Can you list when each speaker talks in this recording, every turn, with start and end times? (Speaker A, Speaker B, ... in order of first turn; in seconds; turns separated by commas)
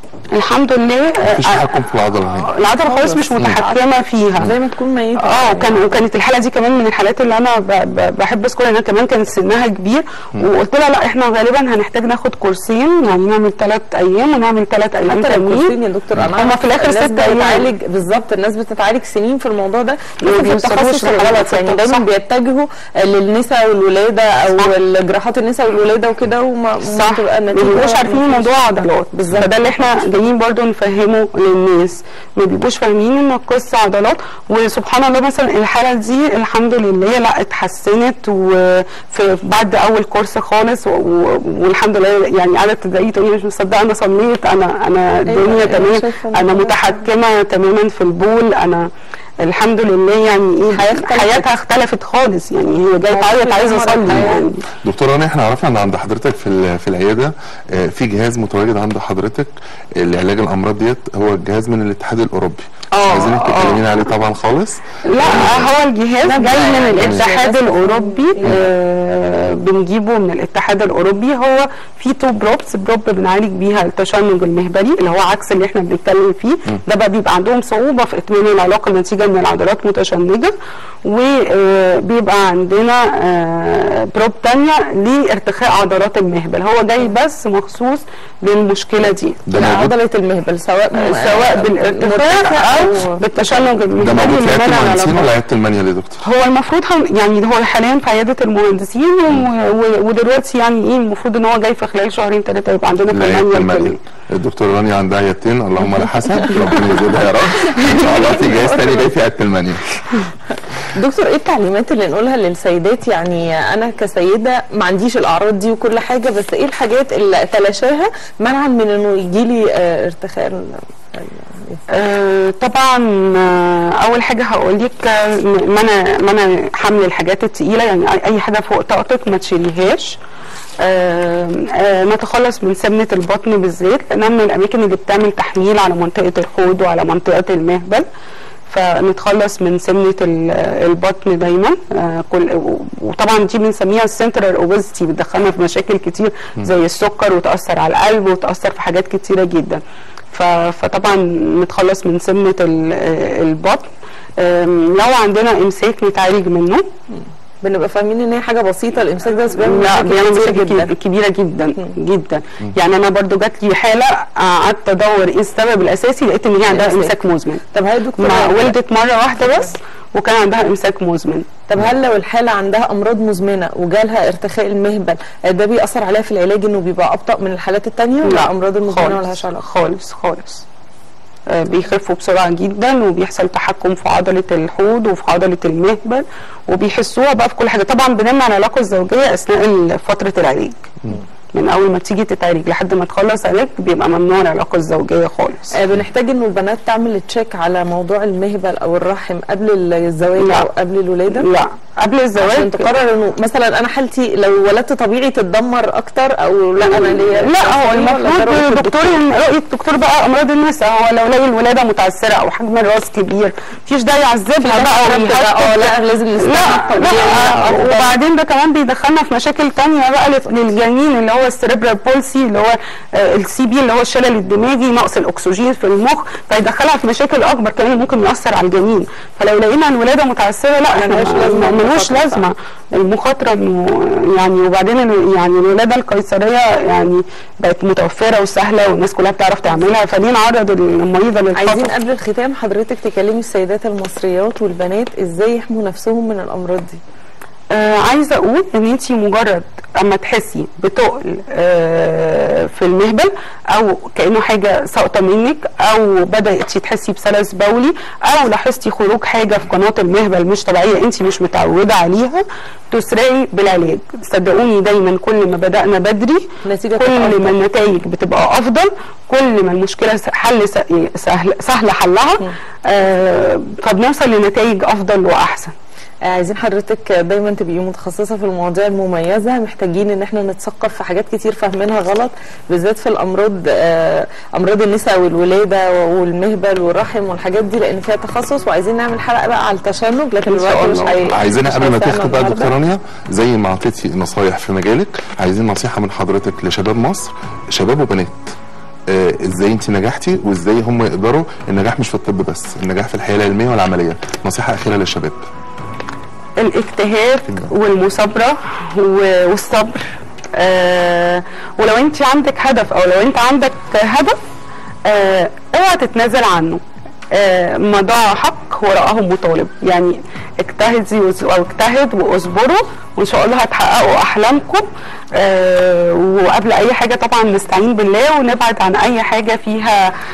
Speaker A: 0.3-4.5, Speaker B: 1.2-2.5, Speaker C: 2.8-6.0, Speaker A: 5.2-15.7, Speaker C: 15.1-30.1, Speaker A: 16.3-17.7, Speaker A: 20.2-22.1, Speaker A: 26.9-48.9, Speaker C: 45.3-47.1, Speaker A: 49.4-54.6, Speaker C: 50.7-51.5, Speaker C: 53.1-54.4, Speaker B: 54.8-65.7, Speaker A: 62.9-63.8, Speaker A: 65.1-80.5, Speaker C: 66.2-68.7, Speaker B: 67.0-67.3, Speaker A: 81.0-89.4, Speaker B: 89.5-89.9, Speaker C: 89.5-94.3, Speaker A: 91.0-95.3, Speaker B: 94.0-96.2, Speaker A: 96.2-104.0, Speaker B: 103.1-110.2, Speaker C: 105.9-107.1, Speaker C: 107.7-109.1, Speaker C: 110.9-121.8, Speaker A: 121.9-130.2, Speaker A: 130.8-138.0, Speaker A: 138.7-153.9, Speaker A: 154.4-156.8, Speaker C: 157.1-160.9, Speaker A: 159.6-167.6, Speaker C: 166.7-167.2, Speaker C: 167.7-168.8, Speaker A: 168.2-171.4, Speaker C: 171.7-179.6, Speaker A: 178.2-180.6, Speaker A: 181.5-190.9, Speaker A: 191.5-195.8, Speaker C: 195.7-201.5, Speaker A: 200.4-200.7, Speaker A: 201.3-202.9, Speaker C: 202.3-209.2, Speaker A: 206.8-241.9, Speaker C: 214.6-218.2, Speaker C: 230.9-232.4, Speaker C: 239.7-239.9, Speaker C: 241.5-247.0, Speaker A: 247.7-275.7, Speaker C: 266.6-267.6, Speaker C: 276.3-292.7, Speaker A: 290.4-291.3, Speaker B: 291.2-298.5, Speaker B: 299.1-305.4, Speaker A: 306.6-314.4, Speaker A: 315.1-316.8, Speaker A: 317.3-330.0